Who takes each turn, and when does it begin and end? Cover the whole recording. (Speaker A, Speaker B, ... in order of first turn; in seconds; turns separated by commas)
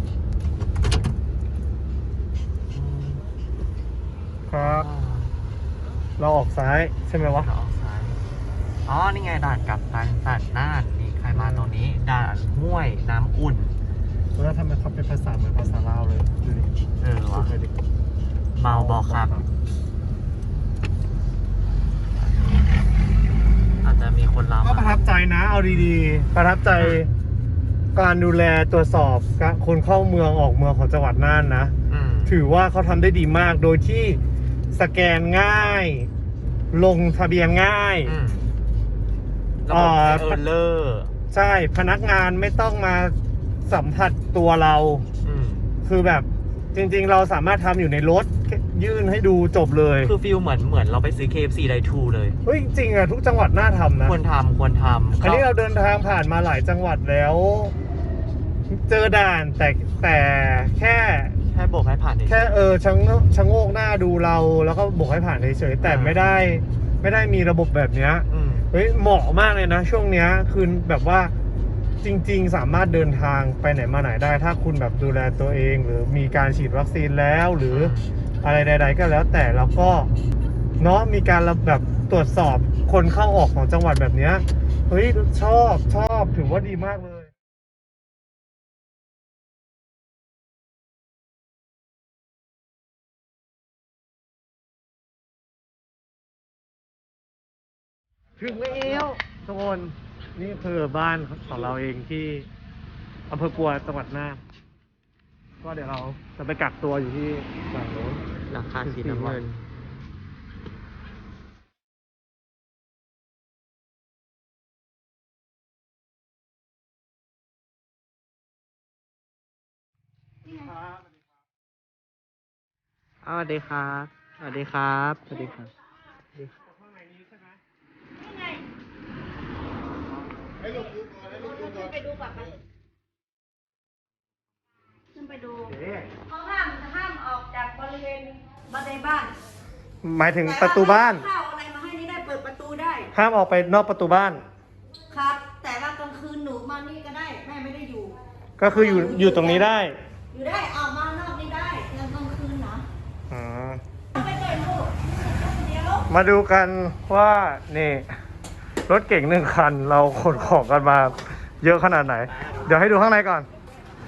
Speaker A: 2.7-3.2, Speaker B: 4.5-4.9, Speaker A: 4.6-5.4, Speaker B: 6.2-7.5, Speaker A: 7.2-8.2, Speaker A: 8.9-13.8, Speaker B: 11.3-11.7, Speaker B: 14.4-16.7, Speaker A: 17.0-17.5, Speaker B: 17.3-17.8, Speaker A: 18.6-19.4, Speaker B: 18.7-19.5, Speaker A: 22.1-22.9, Speaker A: 23.8-25.1, Speaker B: 24.6-27.1, Speaker B: 27.9-31.8, Speaker A: 31.9-32.4, Speaker B: 32.3-34.2, Speaker B: 34.7-36.1, Speaker B: 36.7-38.1, Speaker A: 38.0-38.5, Speaker A: 39.6-41.1, Speaker B: 39.7-40.4, Speaker B: 41.3-43.2, Speaker B: 43.7-45.1, Speaker A: 45.2-45.7, Speaker B: 45.9-50.1, Speaker A: 50.0-52.4, Speaker B: 52.5-54.2, Speaker A: 54.0-55.5, Speaker B: 55.2-57.8, Speaker B: 58.7-61.4, Speaker A: 61.5-62.5, Speaker B: 62.3-71.3, Speaker A: 65.8-66.2, Speaker A: 68.3-68.7, Speaker B: 72.0-80.1, Speaker A: 77.7-78.1, Speaker B: 80.8-87.3, Speaker B: 98.4-102.5, Speaker B: 103.3-104.4, Speaker B: 105.6-108.2, Speaker A: 108.5-109.7, Speaker B: 108.8-109.4, Speaker C: 120.5-120.7, Speaker A: 123.2-125.7, Speaker B: 126.5-127.6, Speaker C: 128.2-128.6, Speaker C: 130.8-132.6, Speaker C: 135.1-135.8, Speaker B: 135.7-136.1, Speaker C: 136.3-139.3, Speaker B: 140.0-141.2, Speaker C: 140.4-143.1, Speaker B: 143.1-144.4, Speaker C: 145.1-149.7, Speaker B: 148.6-150.0, Speaker C: 150.3-152.8, Speaker B: 153.3-153.8, Speaker C: 154.1-156.1, Speaker B: 156.1-158.1, Speaker B: 158.9-163.5, Speaker A: 162.3-162.8